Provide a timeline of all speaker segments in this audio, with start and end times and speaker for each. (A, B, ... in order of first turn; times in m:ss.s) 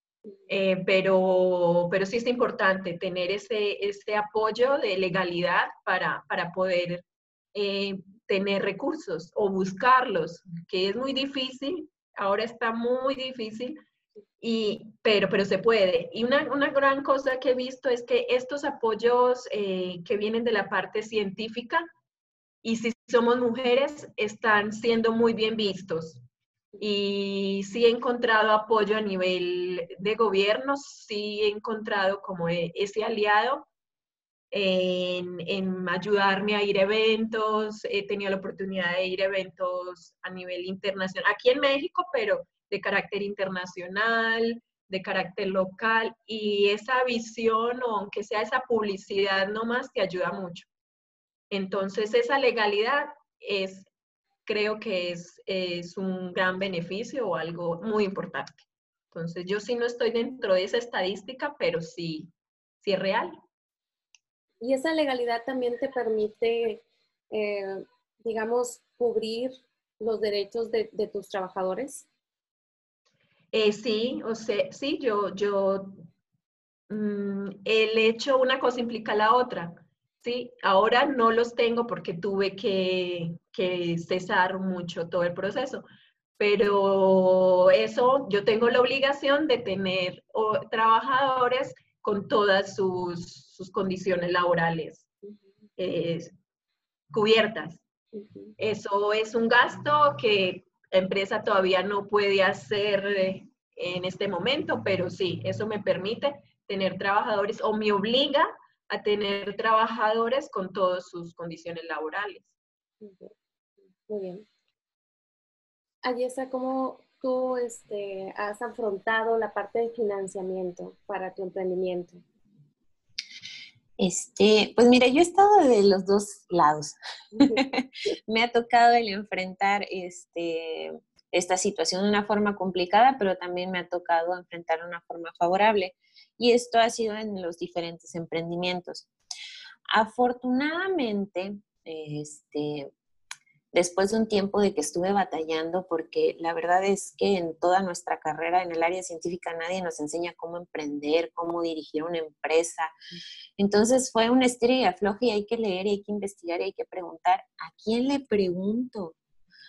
0:00.5-0:13.8 A
0:14.4-0:21.8 A
0:22.6-0:26.2 A
0:26.8-0:33.7 A
0:34.5-0:50.7 A
0:51.5-0:53.9 A
0:54.4-1:02.3 A
1:02.8-1:03.4 A
1:04.6-1:12.1 B
1:13.5-1:16.0 A
1:16.9-1:25.8 A
1:26.4-1:35.1 A
1:35.8-1:36.3 A
1:37.1-1:37.8 A
1:38.1-1:38.5 B
1:38.6-1:52.5 A
1:53.0-1:53.3 B
1:54.1-1:54.4 B
1:56.0-2:02.2 B
2:04.0-2:19.1 C
2:07.4-2:07.6 B
2:19.9-2:22.9 C
2:23.7-2:32.9 C
2:33.6-2:39.2 C